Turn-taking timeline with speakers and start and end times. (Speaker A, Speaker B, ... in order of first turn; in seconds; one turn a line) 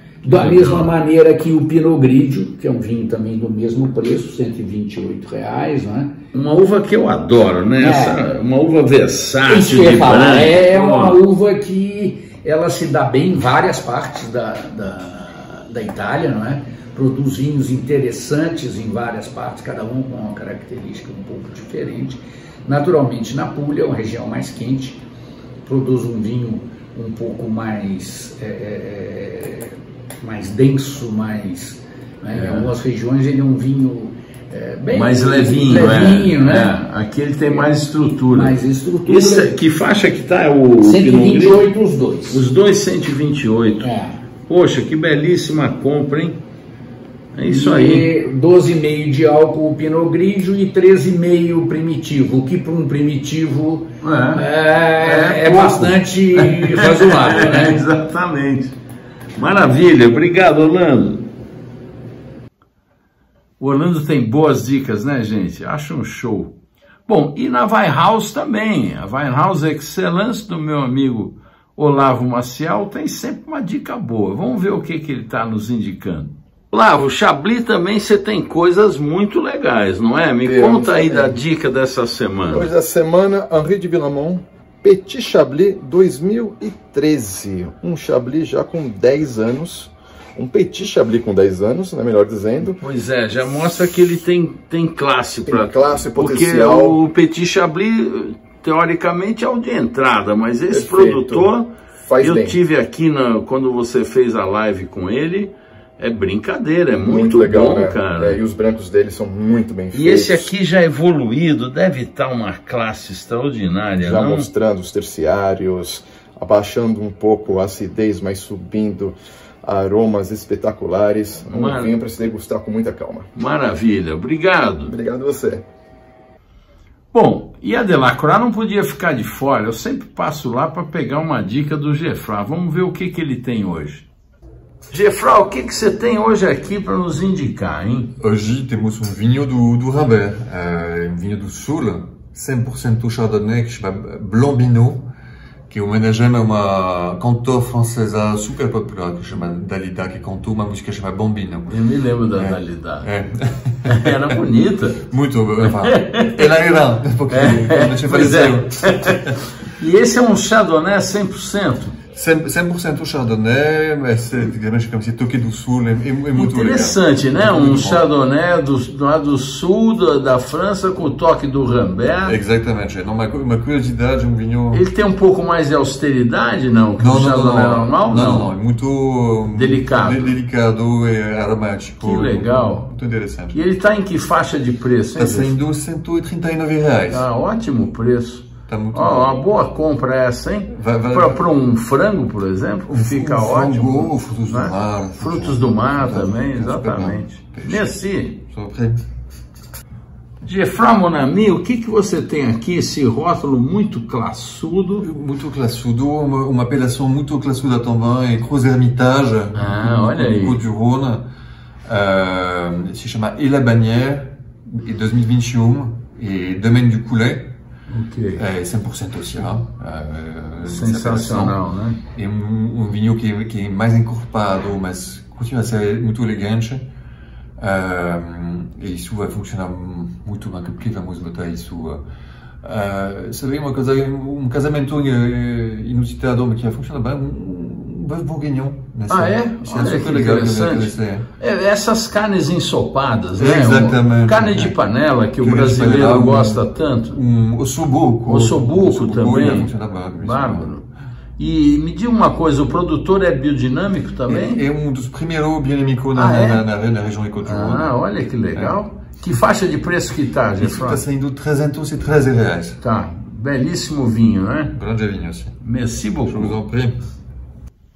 Speaker A: 0.2-6.2
Speaker B: 0.2-1.0
Speaker B: 6.3-11.2
Speaker A: 7.8-8.3
Speaker A: 9.5-25.0
Speaker A: 25.6-36.8
Speaker B: 32.3-32.7
Speaker B: 34.9-41.7
Speaker A: 37.5-37.8
Speaker A: 38.3-39.6
Speaker A: 40.8-42.4
Speaker B: 42.3-43.9
Speaker A: 43.8-44.2
Speaker B: 44.5-46.4
Speaker B: 47.3-48.1
Speaker A: 47.5-57.8
Speaker B: 54.0-54.5
Speaker B: 55.0-58.8
Speaker B: 59.4-61.3
Speaker B: 63.6-66.5
Speaker B: 67.1-82.7
Speaker C: 80.4-81.4
Speaker C: 82.5-92.8
Speaker B: 92.8-108.4
Speaker C: 95.5-97.0
Speaker C: 100.7-102.6
Speaker C: 106.9-110.5
Speaker B: 109.9-114.5
Speaker C: 114.0-123.3
Speaker B: 121.5-121.9
Speaker B: 123.3-124.9
Speaker C: 124.9-125.7
Speaker B: 127.1-134.1
Speaker B: 134.9-138.1
Speaker D: 138.2-145.1
Speaker D: 145.7-151.8
Speaker B: 151.7-153.1
Speaker D: 152.3-154.4
Speaker B: 153.9-155.1
Speaker D: 155.1-159.4
Speaker B: 155.6-156.5
Speaker B: 157.3-159.2
Speaker B: 159.8-162.0
Speaker D: 162.1-168.1
Speaker B: 166.4-172.4
Speaker D: 172.2-174.8
Speaker B: 174.7-178.5
Speaker D: 177.0-183.6
Speaker B: 179.5-180.4
Speaker B: 182.0-182.9
Speaker B: 183.5-185.6
Speaker D: 185.2-187.3
Speaker B: 187.1-198.4
Speaker D: 188.7-189.4
Speaker D: 190.7-191.4
Speaker D: 192.9-199.0
Speaker B: 200.4-205.1
Speaker D: 205.0-211.3
Speaker B: 209.6-210.6
Speaker D: 211.8-217.5
Speaker B: 217.9-218.4
Speaker D: 218.4-221.6
Speaker B: 220.6-222.0
Speaker D: 222.1-226.9
Speaker D: 227.6-232.0
Speaker D: 232.6-241.3
Speaker B: 239.1-247.2
Speaker D: 243.4-244.8
Speaker D: 245.4-250.8
Speaker B: 248.3-250.8
Speaker B: 251.4-254.6
Speaker D: 254.3-257.9
Speaker B: 256.1-256.6
Speaker B: 257.4-261.0
Speaker D: 260.6-262.8
Speaker B: 262.8-264.7
Speaker D: 264.7-265.6
Speaker B: 265.6-266.6
Speaker D: 266.2-267.0